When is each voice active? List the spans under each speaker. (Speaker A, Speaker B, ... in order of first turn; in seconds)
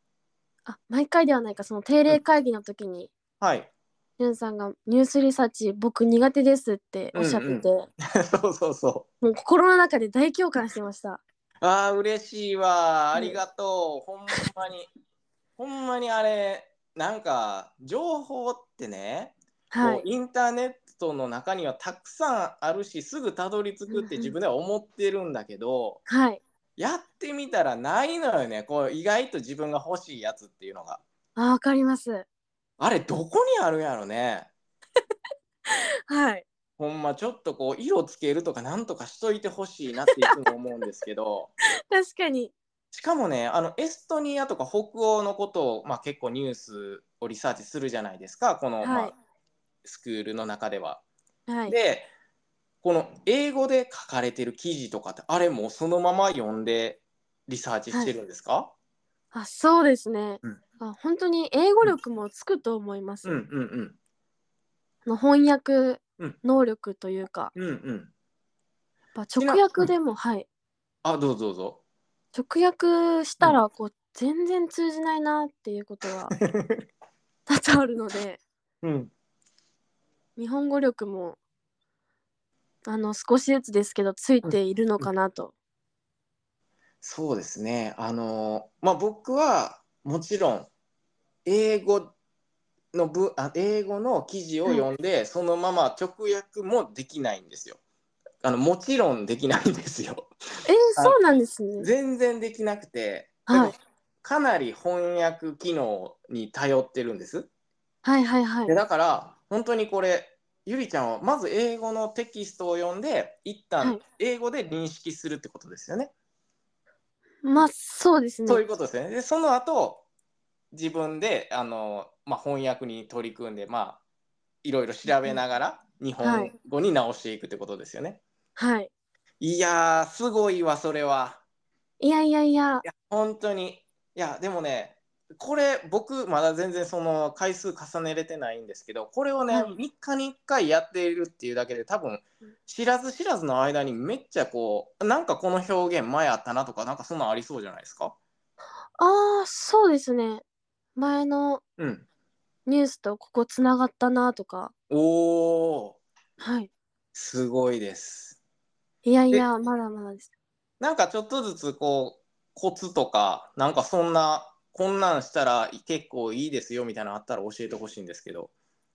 Speaker A: 0.7-3.1, 4.2-7.9, 9.2-11.2, 19.7-20.1, 23.9-24.3, 26.1-26.4, 31.4-32.3, 35.7-36.5, 41.9-42.5, 48.8-49.1, 51.5-51.8, 59.3-63.4, 65.1-67.5, 69.2-70.5, 72.3-76.3, 77.5-78.4, 80.4-81.4, 82.9-85.5, 100.7-101.9, 103.5-103.7, 108.0-108.7, 117.4-118.6, 126.2-126.5, 128.6-128.9, 132.0-132.8, 149.0-150.4, 151.0-151.6, 152.7-154.7, 156.4-156.7, 159.0-160.3
Speaker B: 3.4-3.7, 7.1-9.1, 11.6-14.9, 15.6-26.0, 26.8-31.0, 32.8-34.5, 36.8-41.5, 42.9-49.1, 49.8-51.0, 51.7-52.1, 52.8-58.7, 63.2-64.0, 67.5-68.1, 69.4-69.9, 71.0-71.8, 76.3-76.8, 78.8-79.1, 84.4-85.1, 87.0-90.7, 91.5-92.1, 92.9-97.8, 98.4-100.3, 101.8-107.5, 108.7-116.1, 118.5-120.0, 120.7-124.0, 124.6-128.2, 129.4-131.4, 132.8-148.2, 151.8-152.1, 154.9-156.0, 157.1-158.4, 160.8-168.5